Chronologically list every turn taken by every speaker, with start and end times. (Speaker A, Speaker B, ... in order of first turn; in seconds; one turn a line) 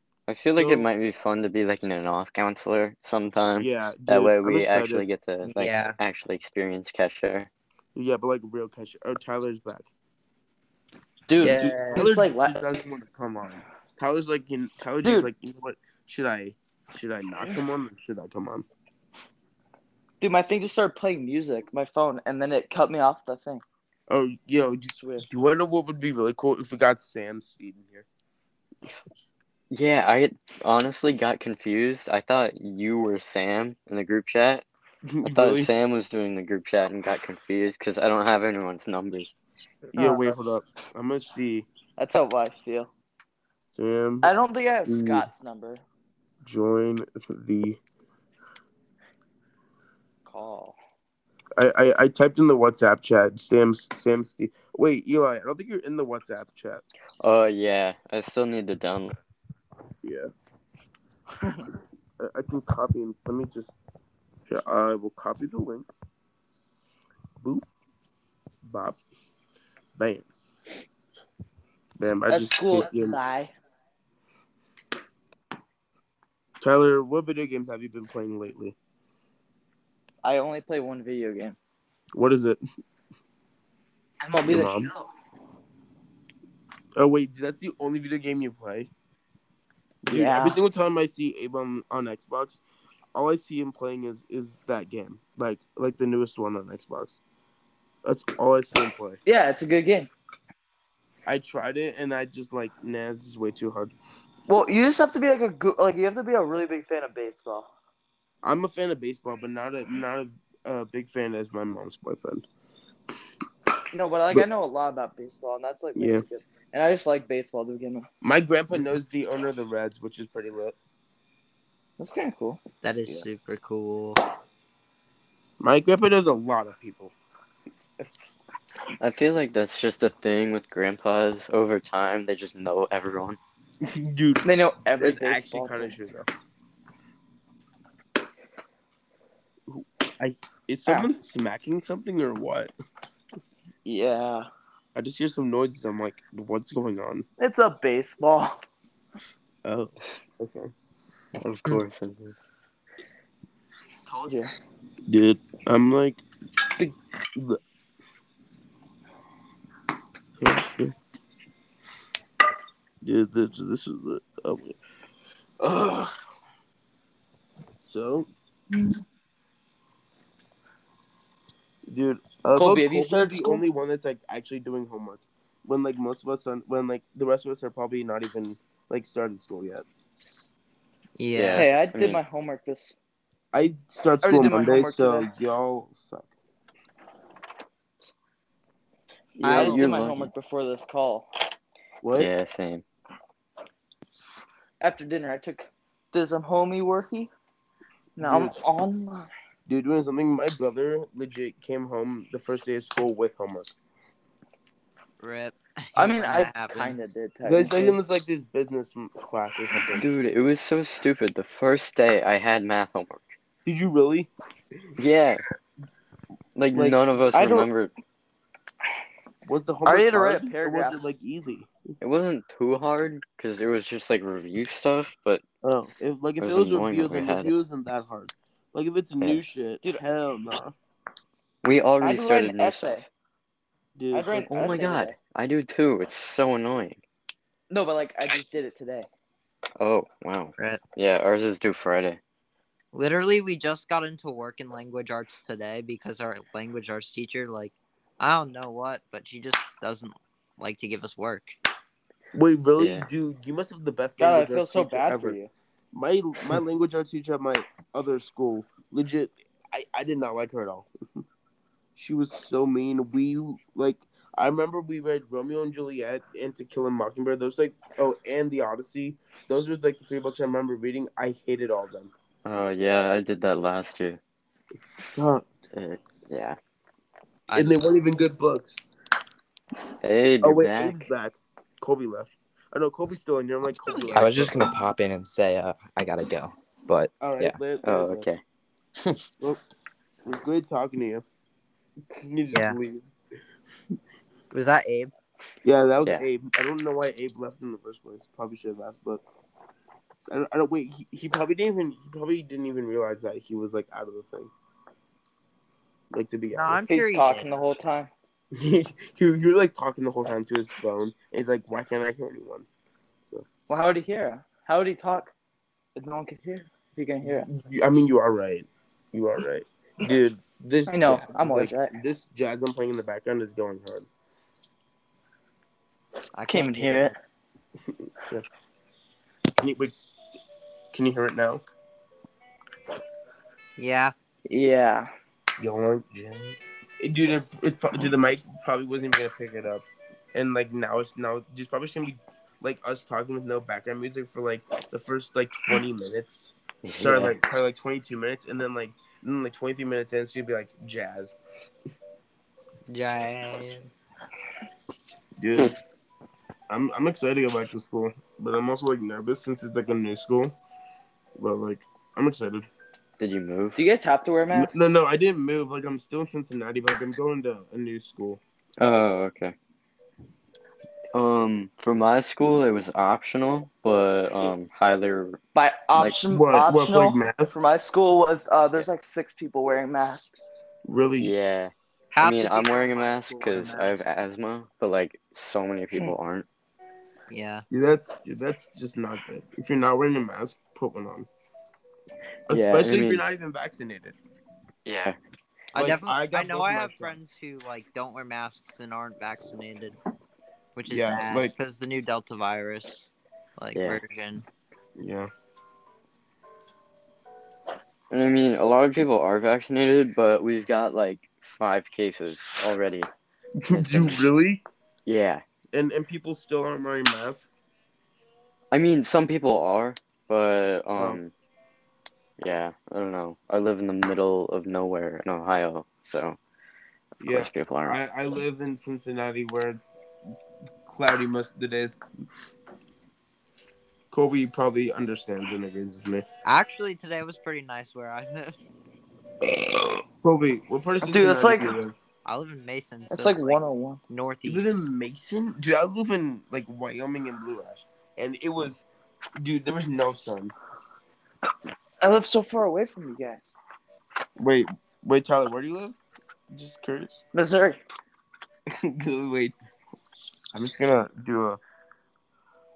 Speaker A: 0.3-7.5
Speaker B: 0.6-0.8
Speaker B: 3.6-5.0
Speaker C: 5.4-6.0
Speaker B: 7.9-9.9
Speaker D: 11.3-12.7
Speaker C: 11.4-12.1
Speaker B: 11.9-18.6
Speaker D: 15.0-15.3
Speaker D: 20.2-23.6
Speaker B: 24.1-28.1
Speaker D: 24.9-25.3
Speaker A: 29.7-34.6
Speaker B: 35.1-35.7
Speaker A: 35.2-39.3
Speaker B: 39.9-41.7
Speaker D: 42.0-42.9
Speaker B: 43.7-44.3
Speaker D: 44.2-45.8
Speaker B: 44.8-45.3
Speaker B: 46.4-47.8
Speaker D: 50.2-50.8
Speaker B: 51.6-56.8
Speaker A: 57.2-59.1
Speaker B: 60.0-60.3
Speaker D: 61.4-61.7
Speaker B: 62.2-63.7
Speaker B: 64.5-65.9
Speaker B: 68.6-69.0
Speaker B: 70.0-70.3
Speaker B: 72.0-73.2
Speaker D: 72.3-73.5
Speaker B: 76.6-78.7
Speaker D: 80.2-81.6
Speaker B: 82.2-82.6
Speaker D: 84.2-85.1
Speaker B: 84.4-84.9
Speaker B: 87.0-88.9
Speaker B: 90.0-92.6
Speaker D: 90.1-90.6
Speaker B: 93.1-97.2
Speaker B: 98.0-99.2
Speaker D: 99.2-100.1
Speaker B: 101.2-103.9
Speaker D: 104.5-107.7
Speaker B: 108.4-112.4
Speaker D: 113.9-118.1
Speaker B: 116.0-116.2
Speaker B: 118.2-120.7
Speaker D: 122.0-122.6
Speaker C: 122.8-124.2
Speaker B: 125.6-127.1
Speaker A: 129.0-133.4
Speaker B: 133.8-134.4
Speaker D: 134.4-135.9
Speaker B: 135.0-136.3
Speaker B: 139.7-142.7
Speaker D: 143.8-144.5
Speaker B: 144.9-147.2
Speaker D: 147.4-148.6
Speaker B: 149.6-150.7
Speaker A: 151.4-152.3
Speaker D: 154.1-154.5
Speaker B: 155.1-156.2
Speaker B: 156.8-157.6
Speaker B: 160.4-160.9
Speaker B: 163.0-164.8
Speaker B: 165.6-166.1
Speaker B: 167.8-168.3
Speaker B: 171.9-179.8
Speaker D: 172.5-173.6
Speaker C: 181.2-181.7
Speaker A: 181.3-182.2
Speaker D: 181.5-182.9
Speaker B: 183.5-186.3
Speaker D: 184.2-185.3
Speaker A: 189.4-190.3
Speaker C: 189.4-189.9
Speaker D: 189.4-191.3
Speaker B: 192.0-192.3
Speaker A: 192.1-192.8
Speaker D: 194.8-197.3
Speaker B: 198.2-198.6
Speaker D: 198.2-199.3
Speaker B: 199.7-203.7
Speaker C: 205.2-207.1
Speaker D: 205.9-208.0
Speaker B: 207.4-210.1
Speaker A: 209.9-213.3
Speaker B: 213.6-214.3
Speaker A: 215.0-215.4
Speaker A: 216.6-217.9
Speaker B: 216.7-217.0
Speaker D: 217.3-217.7
Speaker B: 219.4-221.7
Speaker D: 219.8-221.0
Speaker A: 222.0-225.4
Speaker B: 225.6-230.7
Speaker A: 226.4-227.5
Speaker A: 231.6-233.1
Speaker D: 232.0-233.1
Speaker B: 234.0-234.5
Speaker D: 234.1-235.1
Speaker A: 234.5-237.0
Speaker D: 237.7-239.1
Speaker A: 239.8-242.2
Speaker C: 242.9-251.6
Speaker B: 252.3-255.4
Speaker A: 252.8-253.1
Speaker D: 254.2-255.5
Speaker B: 255.9-260.9
Speaker B: 261.9-272.1
Speaker A: 272.4-274.2
Speaker B: 274.7-275.6
Speaker A: 275.7-276.6
Speaker C: 277.5-277.7
Speaker B: 277.5-278.8
Speaker A: 280.0-281.1
Speaker B: 280.4-284.6
Speaker E: 284.1-287.6
Speaker B: 287.2-288.3
Speaker A: 287.8-288.4
Speaker B: 290.2-291.2
Speaker B: 292.1-293.1
Speaker C: 292.5-292.8
Speaker C: 294.5-295.1
Speaker B: 295.6-299.2
Speaker B: 300.3-304.5
Speaker B: 306.1-306.8
Speaker C: 306.5-307.7
Speaker D: 306.8-308.1
Speaker B: 308.5-312.7
Speaker D: 313.7-315.3
Speaker D: 315.9-317.5
Speaker B: 317.2-324.1
Speaker D: 320.9-321.9
Speaker C: 326.3-327.1
Speaker D: 326.5-327.1
Speaker B: 329.6-329.9
Speaker B: 330.9-331.6
Speaker C: 333.8-334.1
Speaker D: 334.5-335.1
Speaker B: 335.6-351.4
Speaker A: 346.8-347.4
Speaker C: 352.9-354.0
Speaker B: 355.4-355.7
Speaker B: 356.7-360.5
Speaker B: 361.4-362.7
Speaker A: 363.2-363.8
Speaker D: 363.8-364.8
Speaker B: 364.5-368.4
Speaker A: 368.8-369.5
Speaker A: 371.1-375.4
Speaker D: 375.5-380.4
Speaker B: 376.3-377.6
Speaker B: 380.9-381.3
Speaker A: 381.2-386.4
Speaker C: 382.1-384.0
Speaker C: 387.3-387.6
Speaker B: 387.7-391.3
Speaker A: 392.5-393.2
Speaker B: 392.5-394.1
Speaker A: 394.9-395.2
Speaker C: 395.7-399.9
Speaker B: 395.7-397.1
Speaker C: 400.7-404.4
Speaker B: 400.9-401.5
Speaker A: 403.8-404.0
Speaker B: 405.0-405.3
Speaker A: 408.1-413.1
Speaker B: 413.6-414.6
Speaker A: 413.7-414.2
Speaker A: 415.1-415.4
Speaker B: 415.7-417.4
Speaker A: 418.7-421.3
Speaker B: 420.9-421.2
Speaker A: 422.4-426.4
Speaker A: 427.2-428.0
Speaker B: 427.2-430.0
Speaker B: 430.9-432.0
Speaker B: 434.1-436.2
Speaker C: 436.4-438.6
Speaker B: 439.4-441.9
Speaker D: 441.0-441.8
Speaker C: 442.2-444.7
Speaker D: 443.1-444.0
Speaker B: 444.4-448.9
Speaker B: 449.4-450.5
Speaker D: 452.0-453.4
Speaker B: 454.4-455.9
Speaker B: 456.5-457.2
Speaker D: 457.3-457.8
Speaker B: 458.7-459.5
Speaker B: 460.5-461.6